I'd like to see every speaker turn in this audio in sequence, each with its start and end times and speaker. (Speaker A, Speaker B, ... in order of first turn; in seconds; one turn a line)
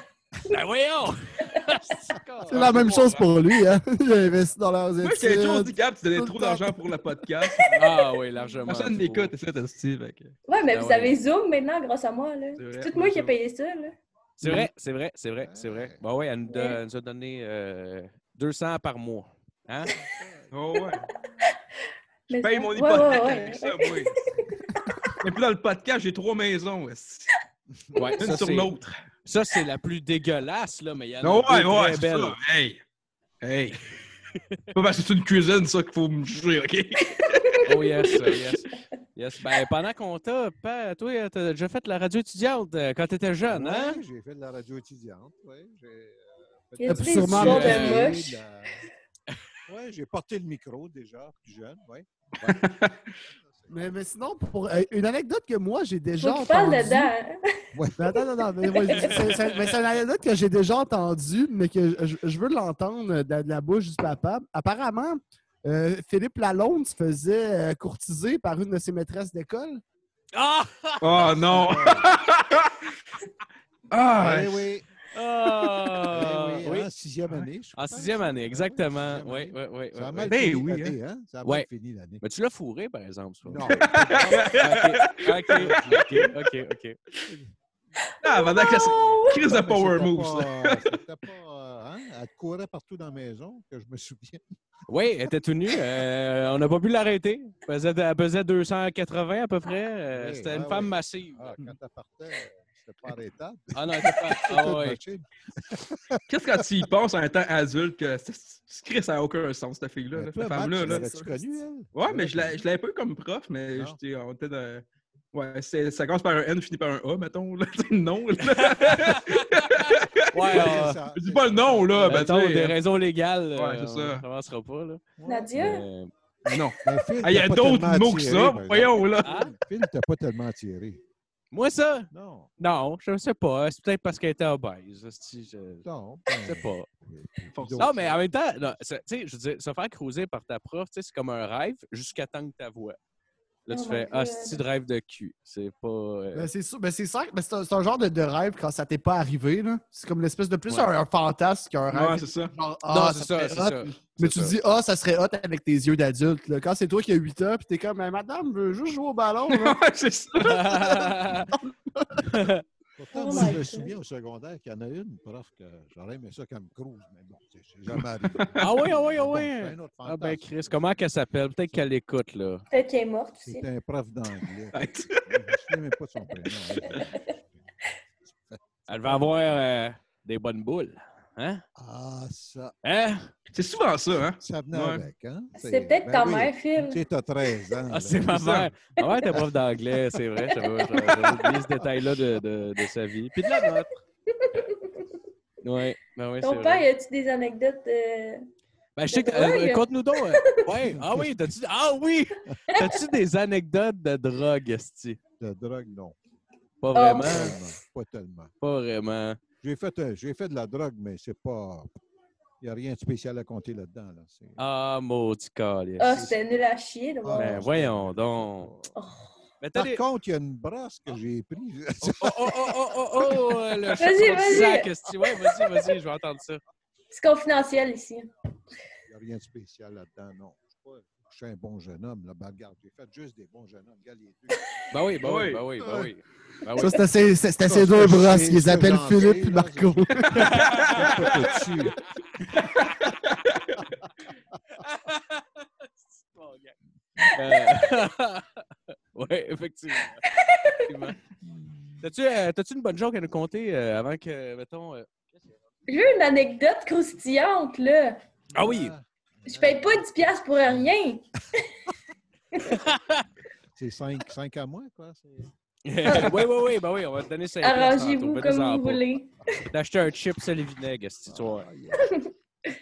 Speaker A: 0.5-3.2
Speaker B: 2.5-6.9
Speaker C: 2.6-3.1
Speaker C: 5.0-8.1
Speaker B: 7.5-7.7
Speaker A: 7.7-9.3
Speaker C: 8.7-10.3
Speaker D: 10.5-13.9
Speaker A: 10.7-11.2
Speaker C: 12.6-13.3
Speaker A: 14.4-19.9
Speaker E: 15.4-16.0
Speaker D: 16.5-16.8
Speaker E: 20.0-20.6
Speaker C: 20.5-21.1
Speaker D: 22.3-25.1
Speaker C: 22.3-24.1
Speaker C: 25.2-27.3
Speaker A: 27.9-28.7
Speaker C: 28.2-28.9
Speaker A: 29.2-32.4
Speaker C: 31.2-32.8
Speaker C: 33.4-33.8
Speaker C: 34.7-37.7
Speaker A: 37.6-44.0
Speaker E: 43.4-48.8
Speaker D: 46.8-48.4
Speaker B: 46.8-48.0
Speaker E: 49.7-52.7
Speaker C: 52.5-53.1
Speaker E: 53.3-53.9
Speaker B: 53.7-57.1
Speaker D: 56.2-57.4
Speaker E: 57.7-58.0
Speaker B: 58.0-69.8
Speaker D: 58.6-59.3
Speaker A: 59.1-59.4
Speaker A: 70.3-71.3
Speaker C: 71.0-72.9
Speaker E: 71.1-72.1
Speaker C: 73.9-74.6
Speaker E: 74.2-74.9
Speaker A: 75.1-76.9
Speaker E: 76.1-82.2
Speaker A: 77.8-80.3
Speaker C: 80.3-81.0
Speaker A: 82.2-87.0
Speaker E: 83.4-84.6
Speaker C: 83.7-86.3
Speaker E: 85.6-86.0
Speaker C: 88.2-91.0
Speaker D: 88.2-89.4
Speaker E: 89.0-94.4
Speaker A: 94.9-101.7
Speaker E: 100.1-106.8
Speaker A: 103.7-105.0
Speaker C: 106.3-111.2
Speaker E: 110.1-112.6
Speaker C: 111.9-122.8
Speaker E: 113.7-114.0
Speaker A: 118.4-119.8
Speaker A: 120.3-121.0
Speaker E: 120.5-122.3
Speaker A: 122.0-126.1
Speaker C: 123.5-124.2
Speaker E: 125.2-125.8
Speaker D: 125.2-125.8
Speaker C: 126.5-129.4
Speaker E: 126.8-131.0
Speaker A: 129.2-129.5
Speaker A: 131.5-136.9
Speaker E: 132.1-132.5
Speaker E: 135.8-138.7
Speaker C: 137.5-137.9
Speaker A: 137.8-143.0
Speaker A: 143.7-146.5
Speaker D: 143.7-144.6
Speaker B: 146.3-159.8
Speaker C: 151.9-152.5
Speaker A: 152.9-154.6
Speaker C: 159.5-161.1
Speaker A: 160.4-161.5
Speaker B: 162.0-162.4
Speaker A: 162.2-162.6
Speaker E: 163.0-171.9
Speaker D: 163.1-163.9
Speaker B: 163.2-163.6
Speaker C: 168.3-168.8
Speaker A: 168.6-172.7
Speaker D: 172.7-173.7
Speaker E: 173.4-177.7
Speaker C: 174.7-175.7
Speaker D: 176.9-177.2
Speaker E: 178.3-179.6
Speaker A: 178.9-181.6
Speaker E: 181.8-182.7
Speaker A: 182.8-183.3
Speaker C: 183.5-185.1
Speaker E: 184.4-188.3
Speaker D: 185.6-187.0
Speaker A: 187.9-193.9
Speaker C: 188.3-188.7
Speaker D: 189.0-189.3
Speaker D: 190.6-191.1
Speaker E: 192.0-192.3
Speaker D: 193.5-195.1
Speaker A: 195.6-196.8
Speaker D: 196.4-198.4
Speaker A: 199.0-205.2
Speaker D: 199.1-200.7
Speaker E: 200.9-201.5
Speaker D: 202.7-203.0
Speaker E: 205.4-206.2
Speaker A: 206.8-207.6
Speaker D: 206.9-207.6
Speaker E: 207.0-208.5
Speaker A: 208.6-209.4
Speaker E: 209.6-212.0
Speaker E: 212.6-214.6
Speaker A: 214.6-216.2
Speaker D: 216.0-217.6
Speaker E: 216.1-216.4
Speaker E: 217.2-218.9
Speaker A: 217.4-218.7
Speaker D: 218.9-219.4
Speaker A: 219.6-220.0
Speaker E: 219.7-225.6
Speaker A: 222.0-226.6
Speaker D: 224.0-224.9
Speaker D: 227.1-228.3
Speaker E: 229.1-234.7
Speaker A: 234.9-237.1
Speaker C: 235.2-235.6
Speaker B: 235.8-236.1
Speaker B: 236.7-241.9
Speaker E: 237.6-242.0
Speaker C: 240.3-241.6
Speaker A: 240.4-241.5
Speaker C: 242.5-243.8
Speaker A: 244.8-245.4
Speaker A: 246.2-246.7
Speaker A: 247.3-248.6
Speaker A: 249.1-250.2
Speaker D: 250.3-250.8
Speaker A: 250.8-251.2
Speaker E: 251.4-252.0
Speaker A: 252.0-255.2
Speaker D: 255.9-258.2
Speaker E: 258.5-260.1
Speaker A: 258.5-258.9
Speaker D: 259.5-261.6
Speaker A: 262.7-263.2
Speaker E: 263.8-265.5
Speaker A: 265.8-269.0
Speaker D: 266.0-266.3
Speaker D: 267.6-269.3
Speaker A: 269.7-271.7
Speaker E: 271.3-272.1
Speaker D: 272.0-272.3